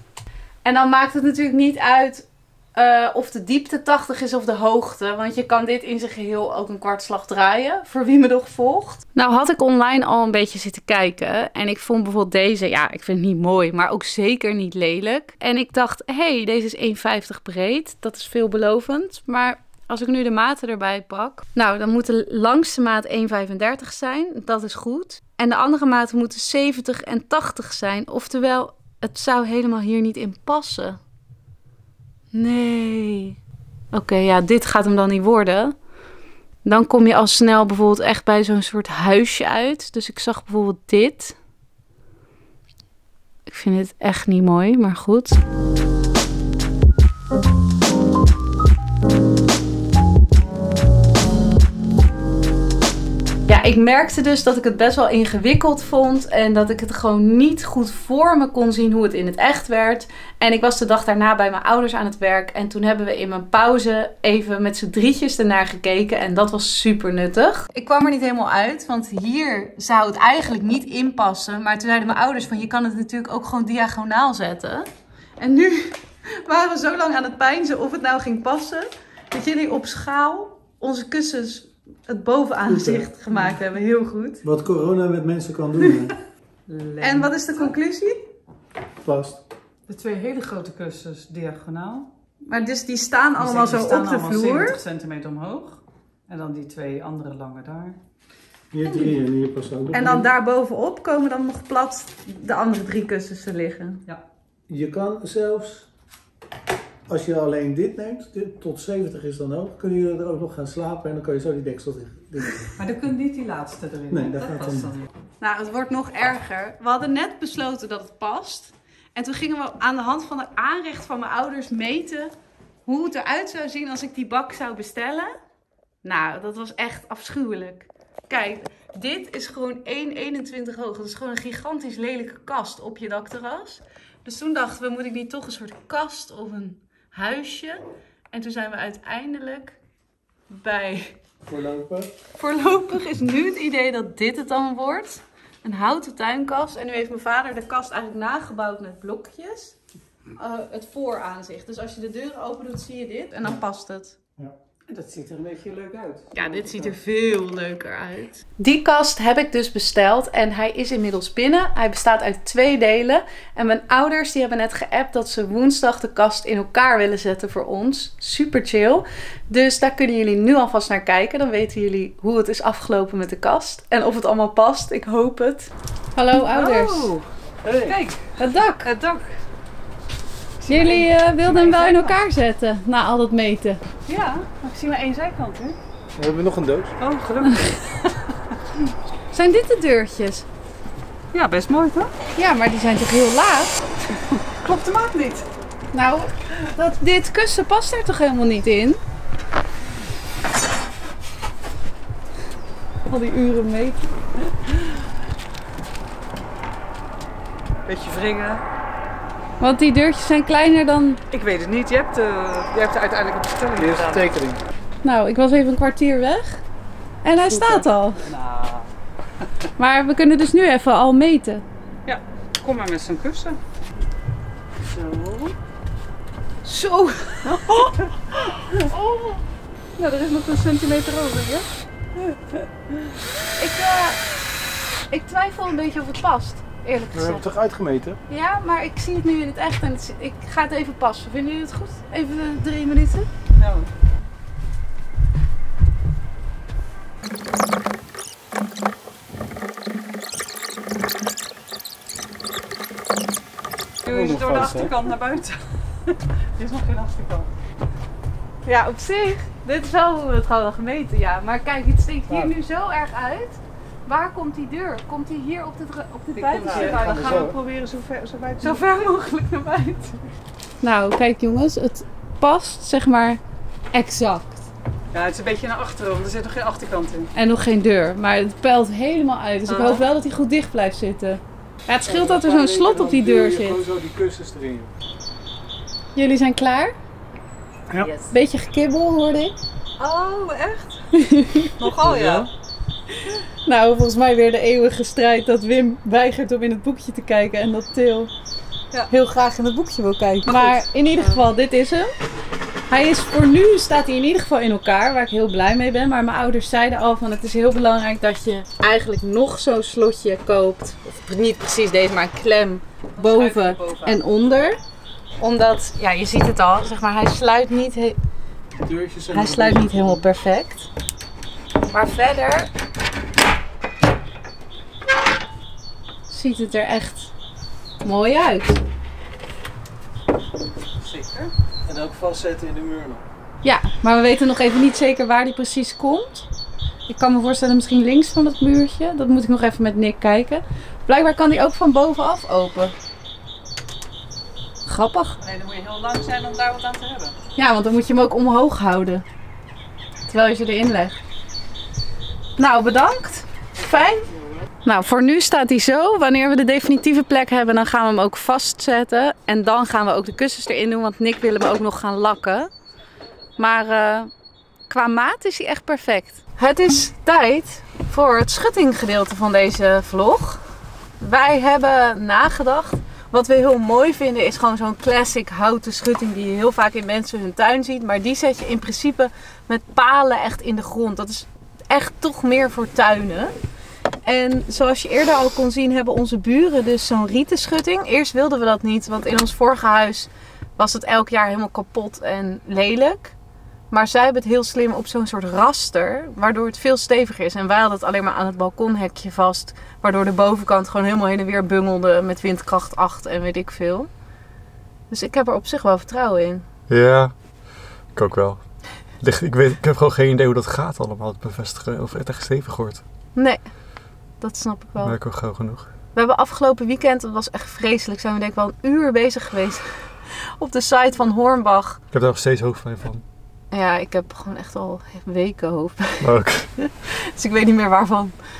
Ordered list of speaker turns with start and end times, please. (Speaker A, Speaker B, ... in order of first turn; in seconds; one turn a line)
Speaker A: 0.6-31.0
Speaker A: 32.3-33.4
Speaker A: 33.9-35.7
Speaker A: 36.6-41.4
Speaker A: 43.5-45.4
Speaker A: 53.5-74.9
Speaker A: 75.4-84.4
Speaker B: 82.7-83.1
Speaker B: 84.4-86.1
Speaker C: 86.7-87.7
Speaker A: 87.0-88.2
Speaker B: 89.0-89.4
Speaker C: 89.9-92.1
Speaker A: 92.5-94.8
Speaker C: 93.4-98.0
Speaker B: 98.7-100.3
Speaker A: 99.9-104.0
Speaker B: 104.7-105.9
Speaker B: 107.1-112.8
Speaker C: 112.8-115.1
Speaker B: 114.1-114.9
Speaker A: 115.4-122.3
Speaker A: 122.8-125.3
Speaker A: 126.0-139.8
Speaker A: 140.5-141.2
Speaker B: 141.4-142.1
Speaker A: 142.3-149.8
Speaker A: 150.3-154.2
Speaker C: 154.9-156.4
Speaker A: 156.3-177.1
Speaker C: 176.4-177.2
Speaker B: 177.6-178.0
Speaker C: 177.8-179.3
Speaker A: 178.4-178.9
Speaker C: 180.6-182.2
Speaker A: 180.7-183.8
Speaker C: 184.1-185.8
Speaker B: 186.2-186.9
Speaker C: 187.0-187.8
Speaker A: 187.5-187.8
Speaker A: 189.3-190.4
Speaker C: 191.3-192.1
Speaker A: 192.3-193.8
Speaker C: 194.6-195.5
Speaker A: 195.9-199.0
Speaker A: 203.1-204.1
Speaker C: 207.8-208.6
Speaker A: 209.6-211.2
Speaker C: 211.3-214.3
Speaker B: 213.8-214.6
Speaker A: 215.0-216.6
Speaker A: 217.2-218.2
Speaker B: 217.6-217.8
Speaker C: 218.2-218.9
Speaker A: 219.8-221.6
Speaker C: 222.1-223.6
Speaker C: 224.9-225.5
Speaker A: 226.6-227.9
Speaker C: 227.6-227.9
Speaker A: 228.7-229.4
Speaker A: 230.0-231.7
Speaker A: 233.6-234.2
Speaker A: 235.1-237.4
Speaker B: 237.1-238.2
Speaker A: 238.3-243.3
Speaker C: 243.6-243.9
Speaker C: 254.0-257.5
Speaker B: 254.0-254.9
Speaker A: 258.6-267.5
Speaker C: 266.3-268.8
Speaker B: 266.6-267.6
Speaker A: 268.6-270.2
Speaker A: 270.8-273.4
Speaker A: 273.9-274.6
Speaker C: 275.1-277.3
Speaker A: 277.3-283.8
Speaker C: 279.7-280.0
Speaker B: 282.1-284.9
Speaker A: 286.1-286.9
Speaker C: 287.9-288.3
Speaker A: 288.3-289.6
Speaker C: 290.0-291.0
Speaker A: 291.1-291.7
Speaker C: 291.8-292.5
Speaker B: 291.9-292.5
Speaker A: 293.6-298.3
Speaker A: 299.1-302.1
Speaker C: 300.5-301.4
Speaker A: 302.9-314.8
Speaker C: 313.1-314.2
Speaker A: 315.4-318.2
Speaker B: 318.7-320.2
Speaker A: 319.3-320.9
Speaker A: 321.9-322.7
Speaker A: 326.3-327.3
Speaker A: 328.0-328.8
Speaker C: 331.0-331.5
Speaker B: 331.9-333.2
Speaker A: 333.6-336.5
Speaker A: 337.1-342.9
Speaker A: 344.9-345.4
Speaker C: 345.4-347.4
Speaker A: 347.6-349.2
Speaker A: 350.3-351.2
Speaker A: 352.6-354.3
Speaker A: 354.8-362.7
Speaker A: 363.6-364.3
Speaker A: 364.9-370.6
Speaker A: 371.2-383.5
Speaker A: 384.2-393.3
Speaker A: 393.9-404.1
Speaker A: 405.1-406.6
Speaker D: 406.9-407.3
Speaker D: 408.1-408.6
Speaker D: 409.2-413.0
Speaker A: 413.4-413.7
Speaker A: 414.4-415.2
Speaker D: 415.0-415.9
Speaker A: 416.1-422.0
Speaker D: 422.1-423.2
Speaker A: 423.7-428.3
Speaker D: 426.2-426.7